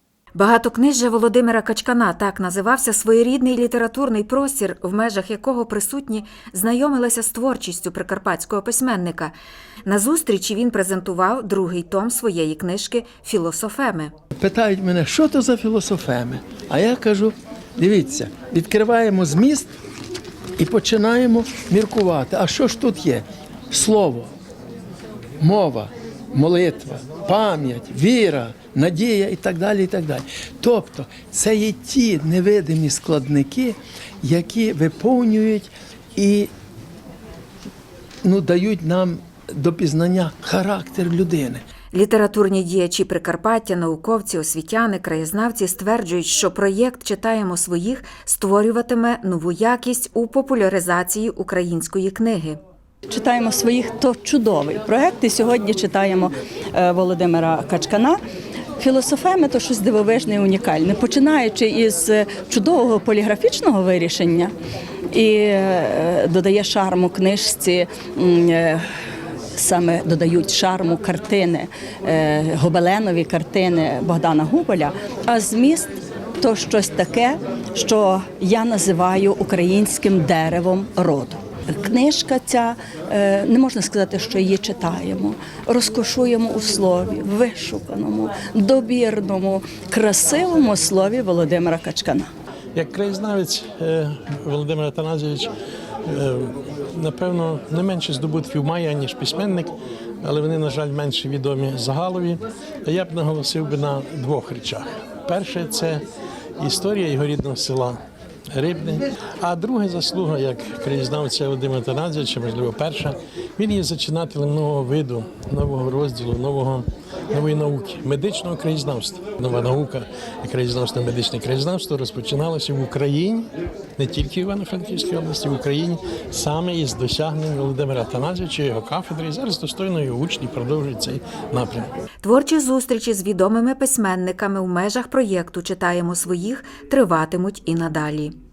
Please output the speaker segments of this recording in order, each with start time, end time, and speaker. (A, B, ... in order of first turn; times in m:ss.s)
0:00.4-0:14.1 A
0:14.4-0:19.7 B
0:20.6-0:24.3 B
0:25.4-0:36.5 B
0:38.2-0:41.6 B
0:41.9-0:52.6 A
0:53.1-0:58.2 C
0:58.8-1:04.5 C
1:05.1-1:08.9 C
1:09.5-1:32.3 C
1:32.8-1:35.5 D
1:36.1-1:46.0 D
1:46.6-1:48.0 D
1:48.5-2:11.9 D
2:12.2-2:18.4 A